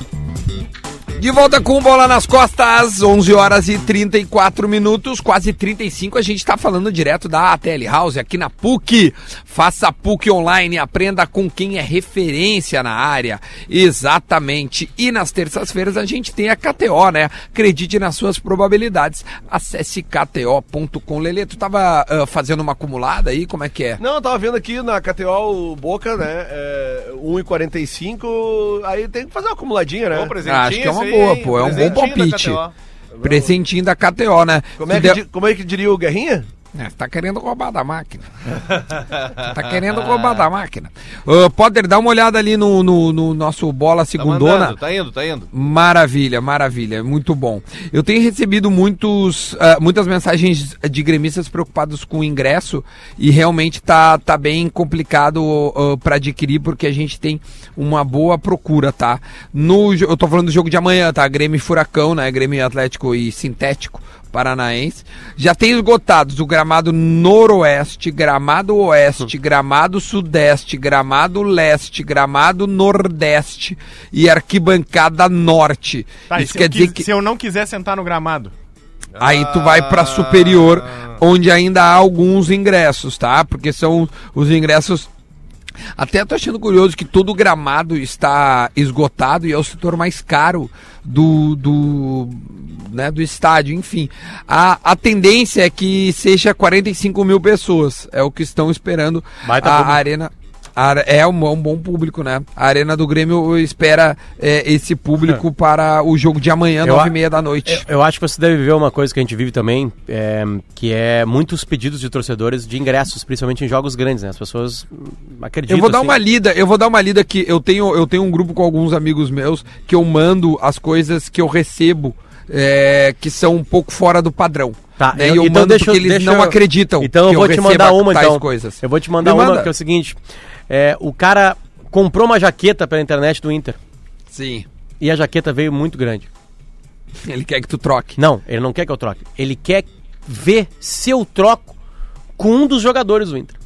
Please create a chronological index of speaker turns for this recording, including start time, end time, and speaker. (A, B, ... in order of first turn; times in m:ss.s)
0:01.2-0:24.0 A
0:24.0-0:30.4 B
0:30.1-0:32.7 C
0:30.4-0:32.6 A
0:33.1-0:33.5 B
0:33.2-0:35.2 A
0:34.8-0:36.4 B
0:36.7-0:38.6 A
0:39.1-0:40.4 C
0:39.4-0:44.8 A
0:44.2-0:45.5 C
0:45.5-1:17.0 A
1:16.3-1:18.5 D
1:19.2-1:21.2 C
1:19.2-1:25.1 A
1:26.0-1:47.8 A
1:39.4-1:40.0 E
1:46.8-1:56.2 E
1:55.7-2:09.7 A
2:05.0-2:10.2 E
2:10.7-2:13.8 E
2:14.3-2:14.6 A
2:15.0-2:16.3 E
2:17.1-2:18.2 A
2:18.2-2:21.7 E
2:22.4-2:23.6 E